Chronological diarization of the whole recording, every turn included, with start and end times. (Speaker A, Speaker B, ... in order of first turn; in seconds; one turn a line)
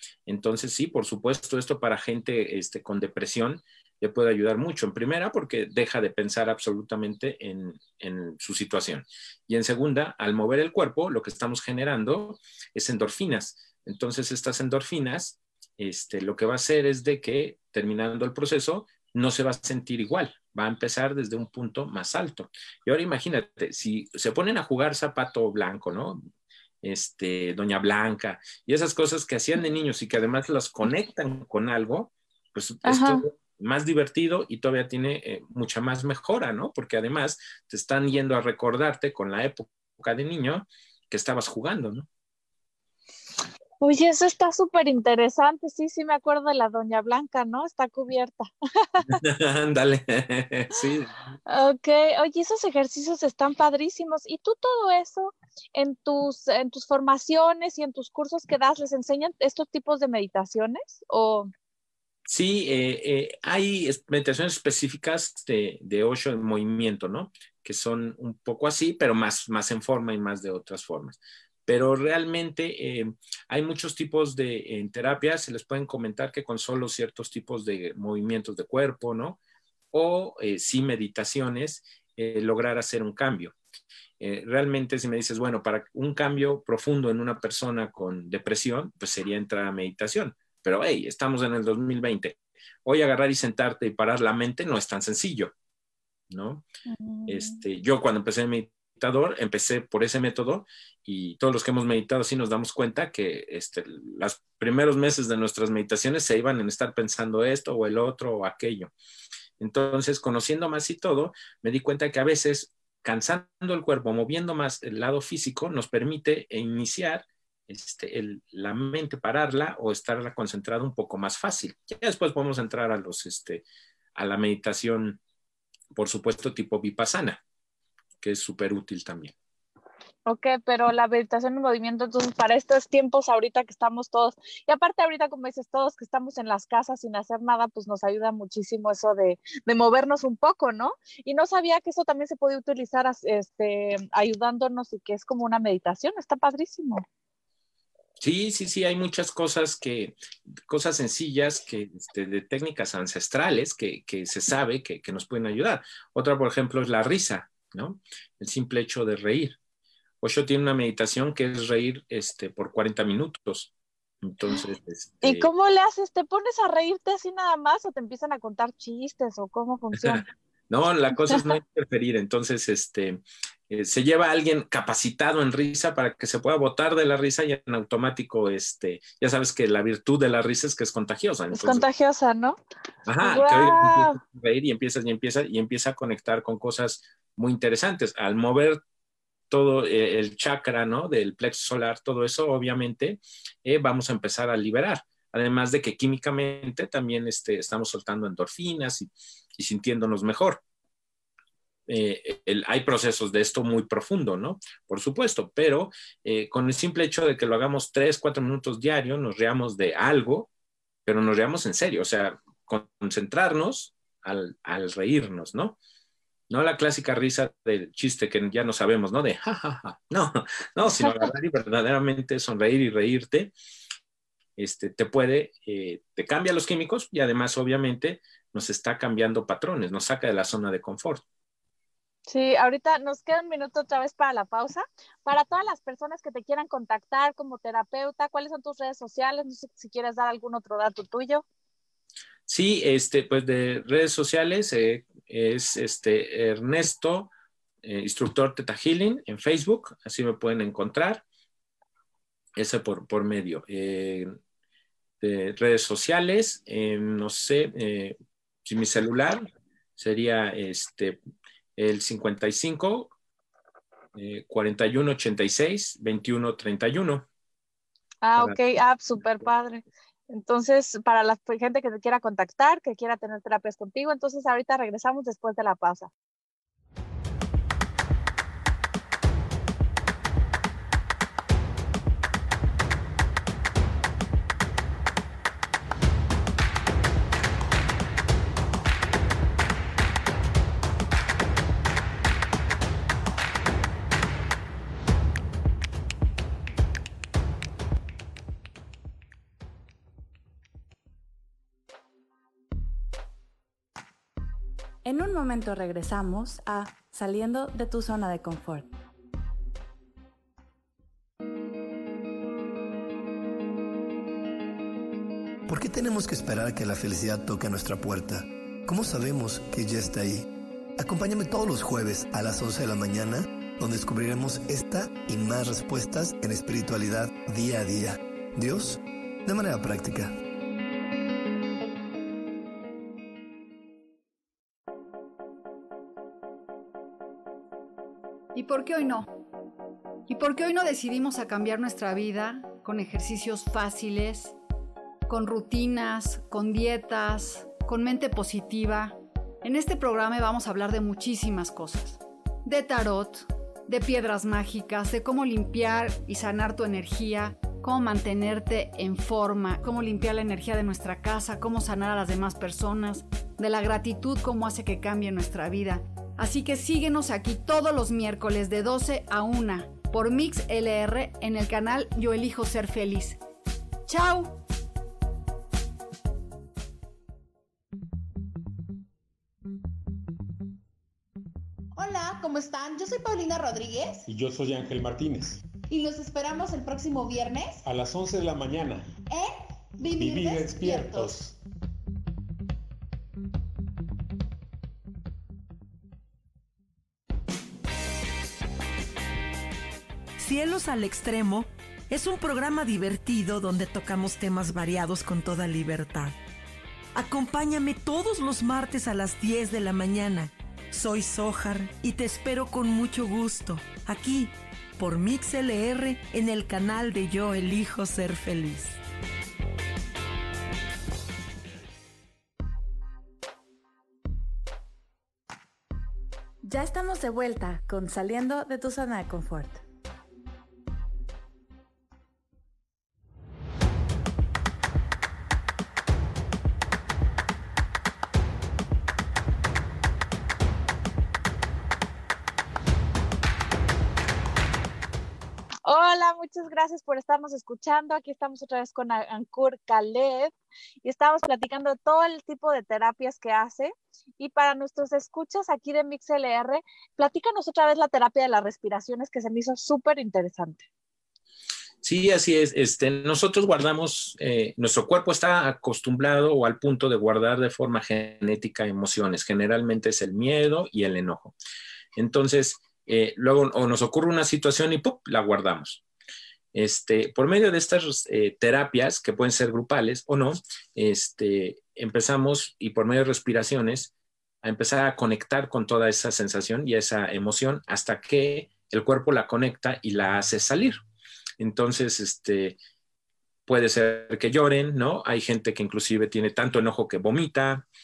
Speaker A: 0.2-26.2
Speaker A: 26.8-42.1
Speaker B: 32.8-33.2
Speaker B: 43.8-49.1
Speaker A: 49.0-51.1
Speaker B: 51.5-61.5
Speaker A: 62.3-79.4
Speaker A: 79.9-83.5
Speaker A: 84.2-95.5
Speaker A: 96.3-96.6
Speaker B: 96.9-97.6
Speaker A: 97.3-108.9
Speaker A: 109.6-123.6
Speaker A: 124.1-125.2
Speaker A: 125.9-127.4
Speaker A: 128.2-129.3
Speaker B: 130.2-147.0
Speaker A: 148.2-159.6
Speaker A: 160.2-165.5
Speaker B: 165.2-170.2
Speaker A: 169.9-181.8
Speaker B: 171.2-171.5
Speaker B: 181.5-182.6
Speaker A: 183.1-188.8
Speaker B: 183.2-184.2
Speaker A: 189.5-200.6
Speaker A: 201.9-210.5
Speaker A: 211.0-215.8
Speaker A: 216.5-223.5
Speaker A: 224.6-231.2
Speaker B: 232.3-241.4
Speaker A: 242.5-247.3
Speaker A: 247.8-251.2
Speaker A: 252.6-254.3
Speaker A: 255.2-261.2
Speaker A: 261.8-263.1
Speaker A: 264.1-267.2
Speaker B: 268.2-276.1
Speaker C: 305.0-308.9
Speaker D: 315.7-330.3
Speaker E: 338.5-339.3
Speaker E: 340.3-344.5
Speaker E: 345.3-373.4
Speaker E: 374.1-374.6
Speaker F: 381.9-384.2
Speaker G: 384.3-385.6
Speaker F: 385.9-387.8
Speaker G: 387.8-389.1
Speaker F: 389.3-391.4
Speaker G: 390.2-391.6
Speaker H: 400.4-406.4
Speaker H: 407.1-419.0
Speaker C: 426.6-429.8
Speaker B: 445.8-460.8
Speaker A: 462.0-471.6
Speaker A: 472.1-476.0
Speaker A: 476.7-484.1
Speaker A: 484.6-491.0
Speaker A: 491.6-492.8
Speaker A: 493.7-497.9